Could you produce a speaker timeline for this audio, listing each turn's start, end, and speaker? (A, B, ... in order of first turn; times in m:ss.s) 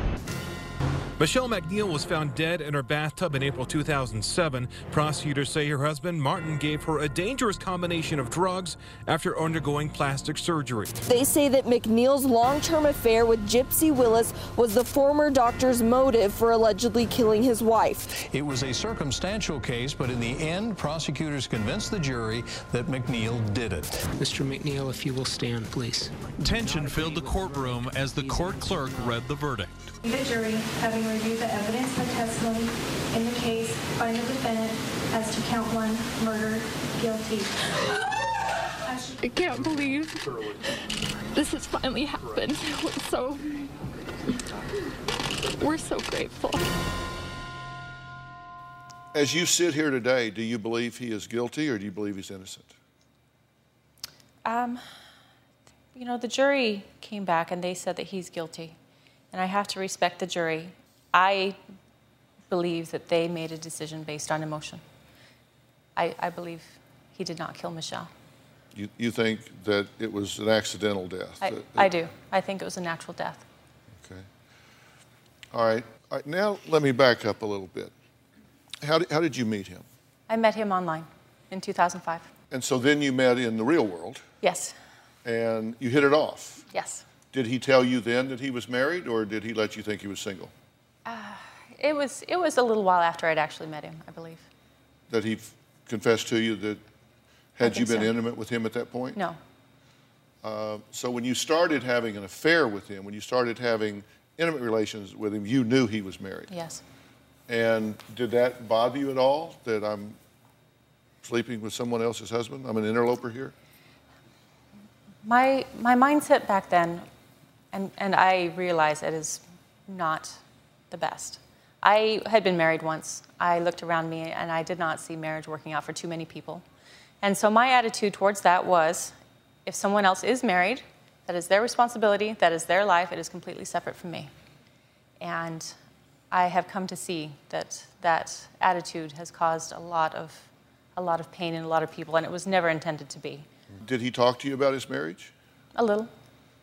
0:01.2-0:10.9 A
0:11.0-0:18.2 B
0:18.3-0:24.1 C
0:24.2-0:26.1 D
0:26.4-0:29.7 A
0:30.0-0:37.6 E
0:38.9-0:39.1 E
0:39.2-0:40.6 F
0:41.3-0:43.7 F
0:45.6-0:46.6 F
0:49.1-0:52.7 G
0:54.4-0:54.8 H
0:56.0-0:58.8 H
0:59.3-1:01.6 H
1:02.5-1:04.8 H
1:06.0-1:08.1 H
1:08.7-1:11.9 G
1:11.4-1:13.4 H
1:14.0-1:14.3 G
1:15.5-1:17.9 G
1:18.8-1:19.9 G
1:20.3-1:22.3 H
1:22.5-1:24.2 G
1:24.4-1:24.8 H
1:25.2-1:26.6 G
1:26.7-1:27.0 H
1:27.3-1:30.5 G
1:31.1-1:34.5 H
1:35.1-1:36.8 G
1:37.6-1:39.2 G
1:37.6-1:38.1 H
1:40.4-1:46.5 G
1:46.5-1:46.8 H
1:47.5-1:50.2 G
1:51.2-1:53.5 G
1:55.2-1:57.1 H
1:57.7-2:06.6 H
2:07.2-2:14.3 H
2:15.2-2:15.8 H
2:16.3-2:23.5 H
2:23.8-2:25.3 G
2:25.8-2:26.1 H